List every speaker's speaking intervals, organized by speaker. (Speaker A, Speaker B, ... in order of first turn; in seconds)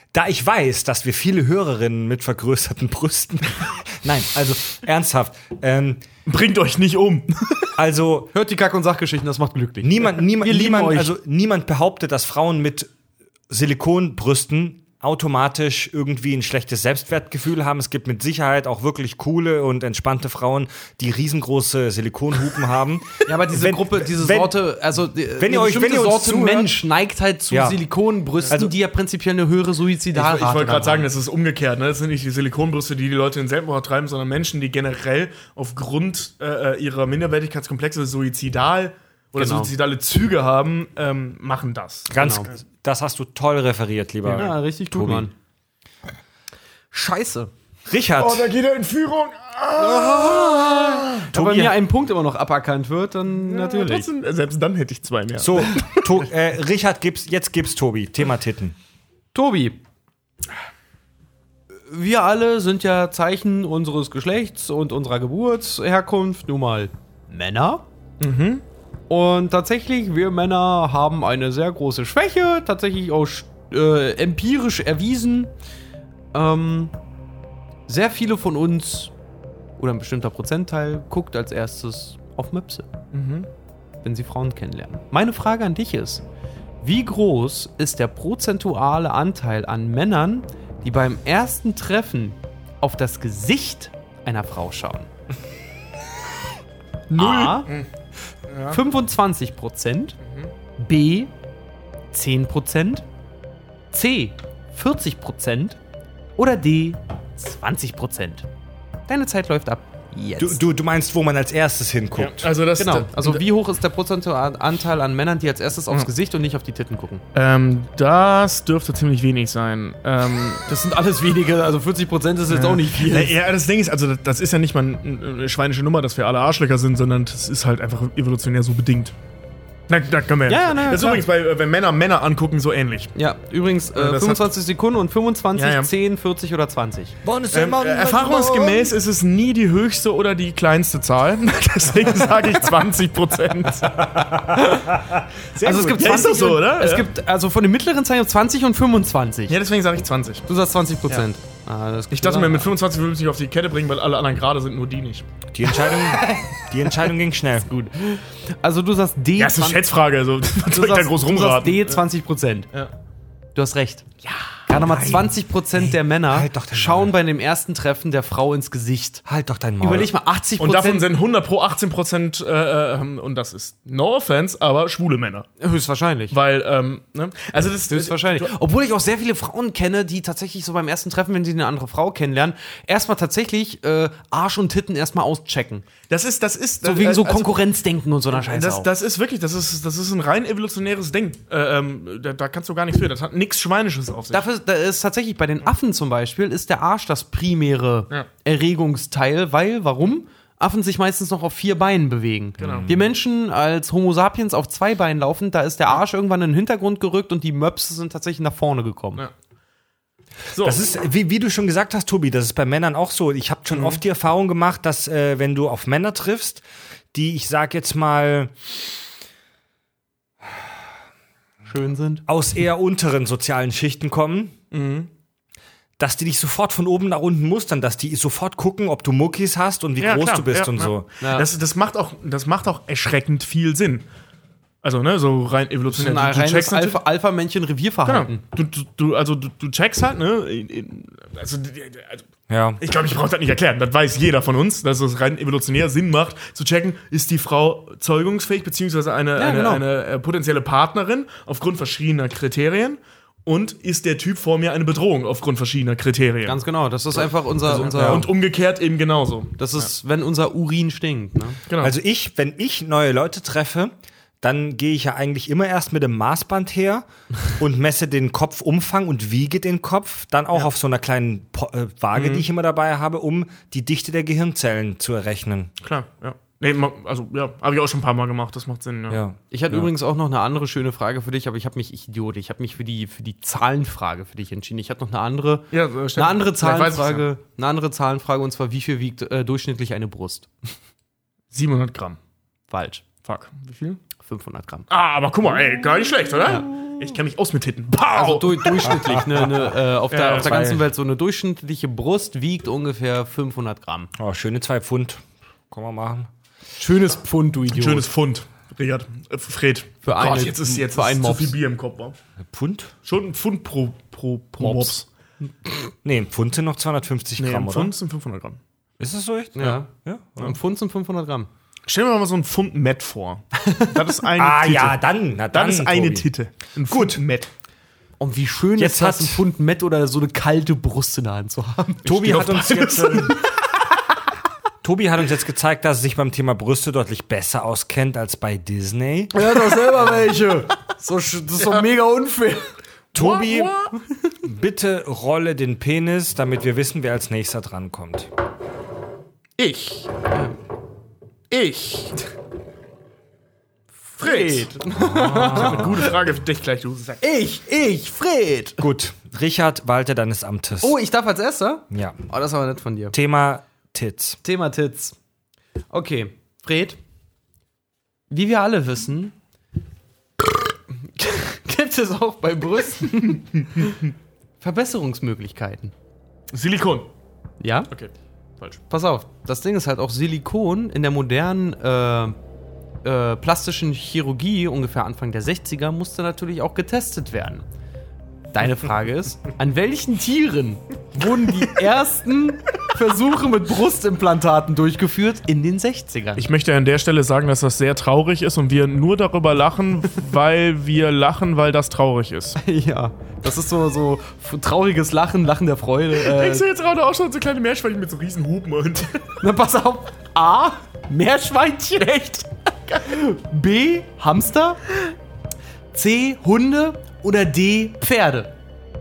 Speaker A: 0.1-6.0, 7.8-8.3, 9.8-12.9, 13.5-24.6, 25.4-26.7, 27.5-27.8, 42.1-45.3, 47.9-48.5, 51.3-51.8, 55.4-58.8, 110.4-112.5, 137.2-138.9, 144.1-146.0, 155.5-157.7, 164.7-167.1, 169.3-170.1, 202.6-203.0, 210.6-216.6, 217.1-218.5, 222.3-224.6, 226.0-231.1, 242.5-242.8, 257.9-258.2, 261.8-275.7, 279.1-279.9, 298.9-299.2, 300.4-300.8, 304.2-306.3, 312.5-312.9, 316.0-317.9, 319.0-320.4, 324.4-326.3, 326.9-327.2, 328.8-329.4, 332.1-333.4, 334.8-339.7, 343.1-343.8, 344.4-348.3, 354.9-356.0, 358.8-361.0, 361.9-362.2, 363.1-364.4
Speaker B: 6.3-7.7, 30.1-42.1, 44.2-44.5, 48.2-51.3, 53.3-56.1, 68.2-68.6, 83.1-83.5, 97.1-97.9, 98.5-98.8, 112.2-113.4, 117.3-120.7, 122.5-129.2, 129.9-133.1, 133.9-134.5, 135.6-135.9, 137.5-144.1, 145.6-147.1, 149.5-150.5, 152.1-155.3, 159.4-162.0, 170.6-175.5, 176.3-178.5, 186.1-187.6, 188.3-194.4, 202.6-203.0, 210.5-210.8, 213.7-214.0, 224.7-225.1, 230.0-234.1, 234.8-237.0, 238.1-242.3, 242.8-256.6, 257.1-259.9, 261.7-262.0, 272.1-272.5, 275.8-279.2, 285.7-287.3, 291.5-292.2, 293.2-294.0, 294.9-299.0, 300.1-300.7, 307.7-312.2, 313.1-315.1, 317.4-318.6, 321.9-327.5, 332.1-333.4, 341.6-341.9, 343.1-343.9, 349.6-350.1, 351.5-352.2, 354.2-357.2, 376.5-377.1, 377.9-378.8, 396.4-402.6, 406.1-409.4, 412.0-413.2
Speaker C: 8.3-11.1, 23.2-31.1, 39.4-39.7, 42.2-42.5, 44.3-45.3, 46.9-47.5, 49.8-54.1, 59.3-59.8, 61.9-67.8, 69.1-75.5, 76.3-76.9, 77.9-79.1, 79.8-82.9, 84.0-86.2, 86.8-95.1, 97.1-97.7, 98.7-100.2, 100.8-101.3, 102.1-103.0, 103.9-105.8, 106.4-108.5, 109.1-110.6, 112.8-117.2, 120.7-123.4, 130.5-131.2, 133.2-137.2, 144.5-144.9, 145.6-149.6, 150.5-152.7, 155.8-157.1, 157.7-159.8, 160.6-162.7, 163.6-169.2, 169.8-171.1, 175.6-176.4, 177.9-185.9, 186.8-188.9, 194.3-209.2, 221.7-222.2, 231.2-231.5, 235.9-238.4, 249.4-249.8, 256.5-258.3, 259.6-261.6, 279.5-290.5, 292.7-293.1, 294.2-294.9, 298.1-304.1, 306.8-308.1, 310.0-311.6, 314.6-314.9, 319.6-321.5, 323.6-323.9, 328.2-333.0, 339.3-342.7, 354.2-355.9, 357.2-358.8, 360.8-363.2, 364.4-365.1, 365.9-367.0, 368.3-369.3, 371.1-374.0, 374.6-375.9, 377.6-377.9, 378.9-382.4, 383.0-387.6, 388.5-396.5, 402.6-406.6, 409.4-412.1, 413.0-414.8, 415.9-418.5